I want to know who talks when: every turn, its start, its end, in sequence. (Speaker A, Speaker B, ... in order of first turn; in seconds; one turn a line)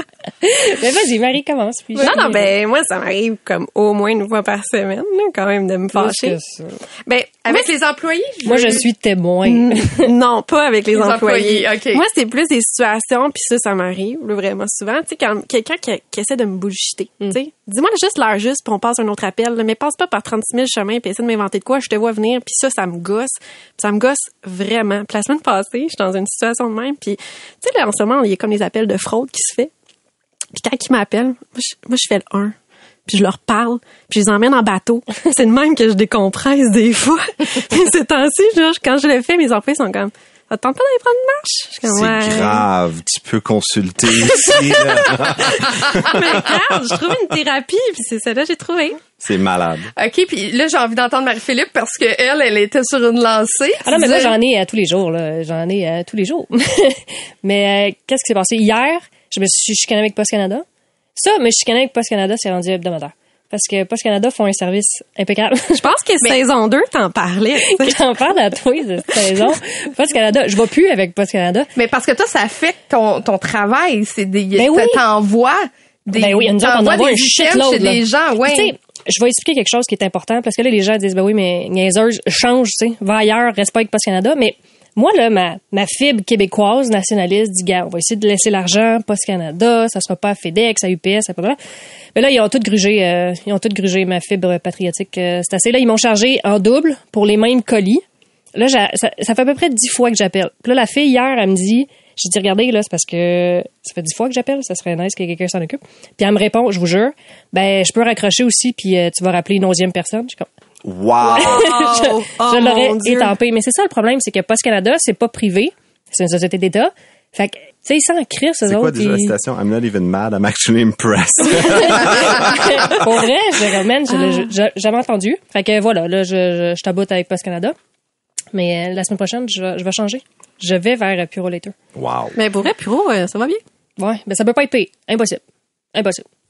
Speaker A: 0.4-2.5
Speaker B: 2.0-6.4
Speaker A: 5.9-6.8
Speaker B: 7.0-7.7
Speaker C: 7.4-8.8
Speaker A: 8.4-10.1
Speaker B: 9.5-29.7
Speaker C: 10.9-12.0
Speaker B: 30.6-32.6
Speaker B: 33.1-42.6
Speaker D: 41.9-47.0
Speaker B: 44.4-49.0
Speaker D: 49.2-49.9
Speaker C: 50.0-54.4
Speaker A: 53.9-60.6
Speaker A: 61.2-65.9
Speaker B: 65.8-68.2
Speaker A: 67.7-71.7
Speaker B: 69.1-69.5
Speaker C: 71.8-78.7
Speaker A: 74.6-75.0
Speaker A: 76.1-91.6
Speaker A: 92.2-98.0
Speaker A: 98.5-110.5
Speaker D: 110.8-111.8
Speaker B: 111.2-113.3
Speaker A: 111.4-119.4
Speaker D: 118.6-123.0
Speaker A: 121.6-127.8
Speaker B: 124.2-124.5
Speaker A: 128.5-131.7
Speaker D: 131.9-132.4
Speaker B: 132.4-133.6
Speaker A: 134.0-135.4
Speaker A: 135.9-136.2